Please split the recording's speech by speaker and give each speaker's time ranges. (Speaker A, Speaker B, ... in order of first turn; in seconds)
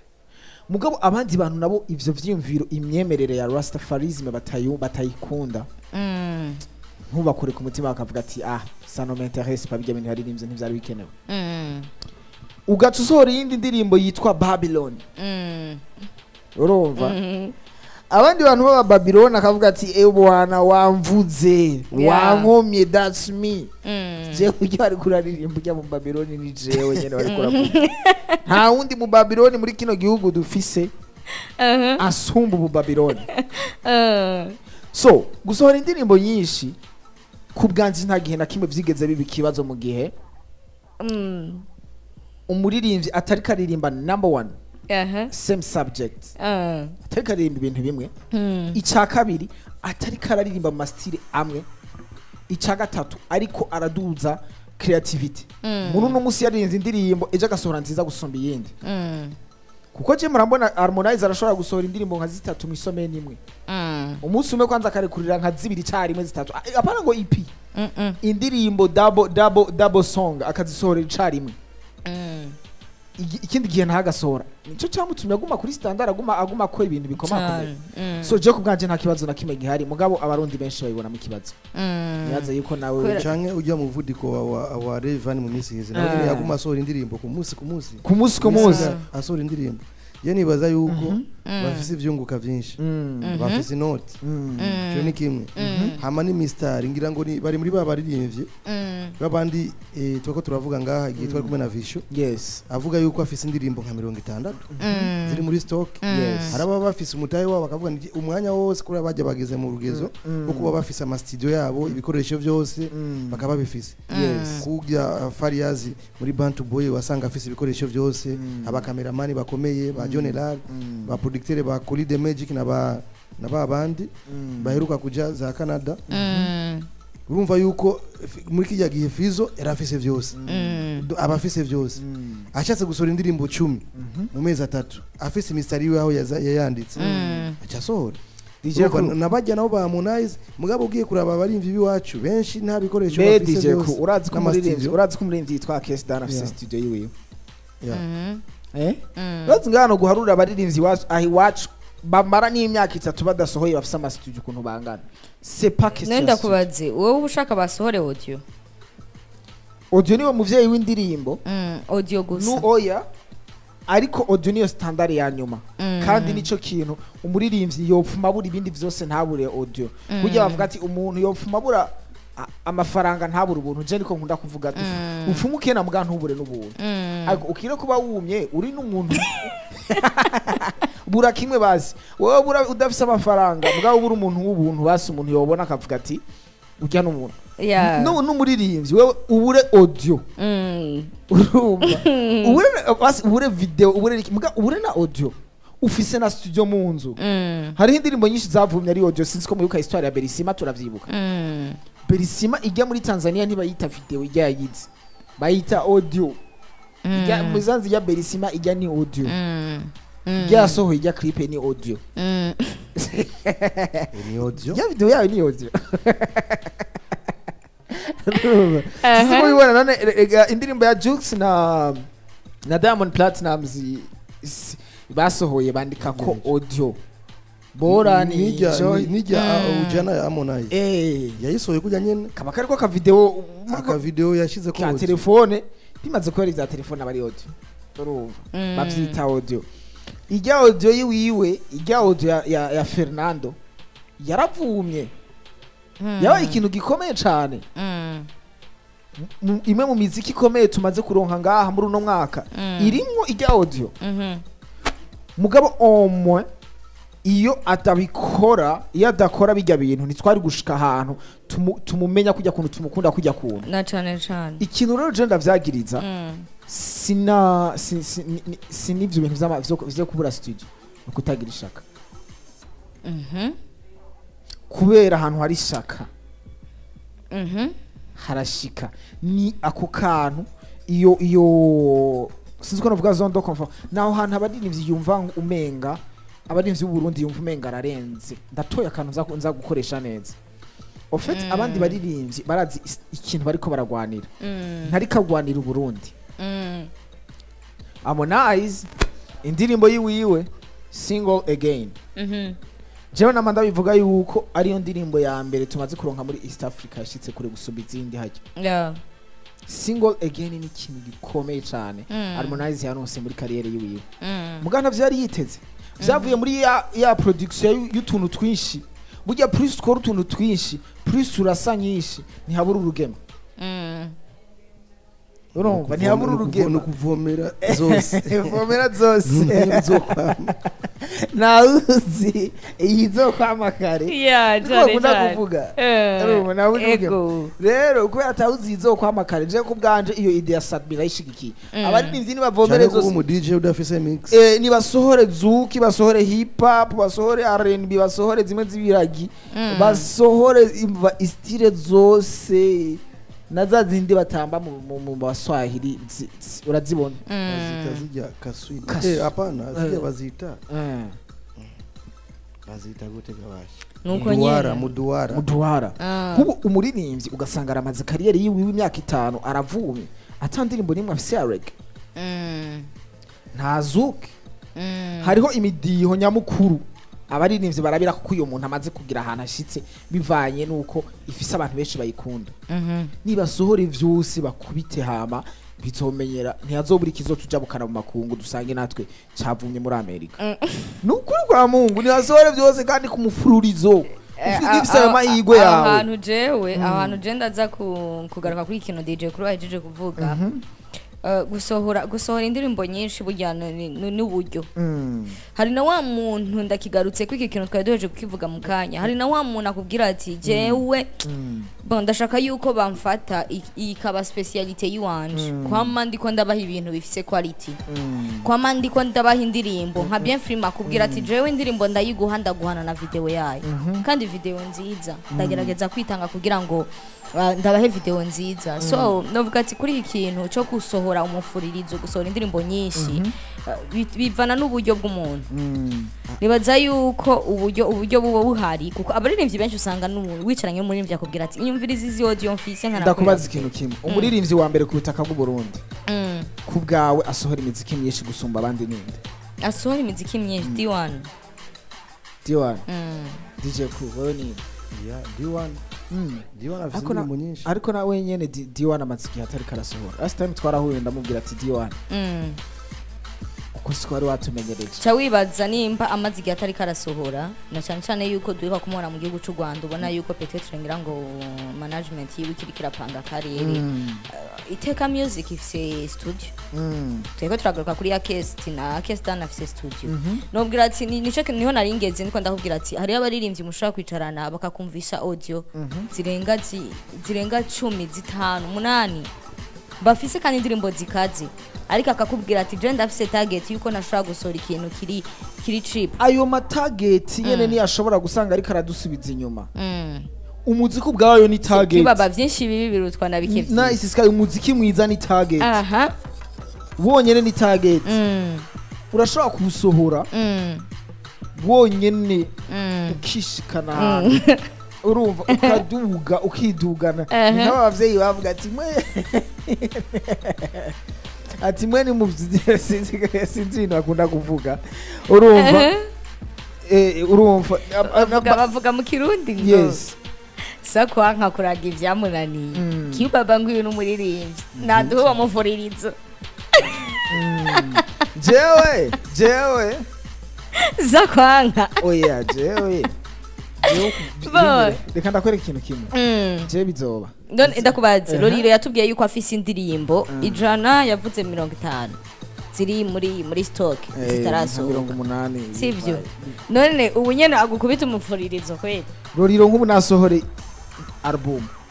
Speaker A: 0.7-5.7, 7.1-11.1, 12.7-15.0, 16.6-17.2, 18.1-23.7, 24.3-27.8, 28.4-30.9, 32.0-33.3, 34.9-36.8, 37.5-40.1, 42.5-44.5, 45.3-46.3, 47.0-48.1, 48.7-51.7, 52.5-58.7, 59.9-63.4, 64.2-67.5, 68.2-71.5, 73.2-81.5, 82.2-83.3, 85.9-86.5, 88.0-88.9, 90.9-91.2, 92.8-93.3, 94.2-94.8, 95.6-96.0, 101.2-101.5, 102.1-102.6, 104.7-105.1, 106.1-106.6, 109.9-110.8, 112.9-113.5, 114.1-114.7, 118.3-118.9, 119.9-121.2, 124.3-124.9, 126.1-126.5, 130.3-130.9, 132.0-132.5, 133.9-134.3, 136.9-137.5, 138.6-139.2, 143.1-147.1, 148.7-156.6, 159.9-161.4, 162.3-163.0, 163.9-186.2, 186.8-190.2, 191.3-197.2, 197.8-201.1, 202.1-206.4, 207.1-209.3, 210.3-212.0, 212.9-217.3, 217.9-222.1, 222.7-227.0, 227.7-229.1, 230.7-231.4, 232.3-234.0, 234.7-239.7, 240.3-243.6, 244.2-245.1, 246.2-247.6, 249.2-253.9, 255.4-256.5, 257.2-263.7, 264.6-266.1, 266.7-271.8, 274.7-276.1, 278.1-290.4, 291.1-294.3, 294.8-296.1, 298.0-298.9, 299.4-301.9, 303.1-308.4, 309.7-314.0, 314.6-323.2, 325.6-326.9, 327.6-343.2, 344.3-357.2, 358.9-360.1, 360.7-361.2, 365.3-371.7, 373.5-374.3, 375.2-382.5, 383.2-390.4, 391.0-396.1, 396.7-397.2, 400.2-400.6, 404.8-405.4, 410.4-411.7, 415.3-415.9, 417.9-418.5, 420.0-420.3, 420.8-421.3, 423.6-424.0, 425.3-425.7, 428.8-429.2, 432.9-433.3, 435.5-436.3, 442.9-445.8, 446.6-449.2, 452.4-452.8, 453.6-454.6, 456.1-461.9, 463.7-465.0, 473.5-474.3, 476.7-477.3, 480.0-480.4, 485.7-486.1, 496.2-499.7, 500.6-502.2, 503.4-505.8, 507.0-508.1, 509.1-510.3, 511.5-512.5, 513.1-514.4, 515.0-520.9, 521.6-525.9, 526.8-528.6, 529.6-530.1, 532.7-533.3, 534.8-535.4, 537.3-540.0, 542.0-543.1, 543.8-548.7, 550.3-550.7, 554.1-556.6, 559.3-560.5, 561.2-561.7
Speaker B: 5.9-6.6, 11.3-11.9, 15.2-15.8, 17.0-17.5, 21.9-22.5, 23.8-24.5, 27.2-28.4, 31.4-32.0, 33.3-34.6, 41.0-41.6, 44.9-45.3, 46.4-47.0, 48.3-48.8, 55.6-56.2, 58.8-59.4, 63.7-64.2, 67.7-68.2, 72.0-72.5, 77.2-78.4, 81.7-83.3, 88.5-89.1, 91.4-91.9, 93.2-93.7, 94.6-96.0, 98.7-99.2, 104.8-105.5, 106.0-106.6, 114.1-114.7, 126.1-126.9, 130.5-131.1, 137.0-137.6, 147.9-148.4, 149.1-149.6, 156.0-158.4, 161.4-162.6, 165.8-166.5, 170.1-170.7, 174.8-175.4, 176.8-177.4, 179.2-180.0, 187.6-188.2, 190.4-191.1, 191.8-192.6, 197.2-197.8, 201.1-201.8, 207.0-207.7, 209.2-210.8, 212.2-212.8, 219.0-219.6, 229.3-230.1, 238.5-239.2, 246.0-246.6, 247.7-248.3, 252.5-253.0, 254.0-254.4, 263.6-264.6, 266.0-266.5, 273.0-273.6, 277.3-277.7, 291.3-292.0, 294.4-295.0, 296.4-296.9, 302.1-302.6, 308.6-309.0, 312.1-312.6, 314.2-314.7, 316.0-316.4, 323.6-324.1, 334.1-337.5, 341.7-342.2, 349.5-350.1, 357.3-358.1, 364.0-364.9, 366.0-366.5, 372.1-372.9, 374.8-375.4, 382.7-383.1, 390.4-391.0, 394.3-400.4, 401.2-404.7, 405.5-411.2, 411.8-417.8, 418.4-435.5, 436.4-444.3, 446.1-446.5, 449.6-451.3, 452.9-453.4, 462.1-462.6, 465.0-476.5, 477.4-489.3, 490.0-496.2, 497.4-497.8, 499.7-500.3, 501.7-504.0, 505.6-506.1, 508.1-508.6, 510.3-510.9, 512.7-513.2, 513.9-514.7, 515.5-515.8, 517.3-517.8, 525.5-526.1, 528.0-530.0, 530.8-536.1, 536.7-538.0, 540.7-542.1, 543.9-545.0, 546.1-546.7, 547.5-552.2, 552.7-555.1, 555.7-559.1
Speaker C: 83.2-92.8, 93.3-94.2, 94.9-98.5, 99.2-102.1, 102.7-104.7, 105.2-114.0, 114.6-126.0, 127.3-130.3, 131.0-132.0, 132.5-138.2, 138.7-145.0, 146.3-146.5, 214.1-214.8, 226.0-226.5, 227.9-230.7, 231.4-232.3, 233.7-235.2, 325.5-328.7, 329.2-330.6, 342.6-344.4, 357.4-360.6, 362.6-365.4, 454.9-455.8, 456.5-457.7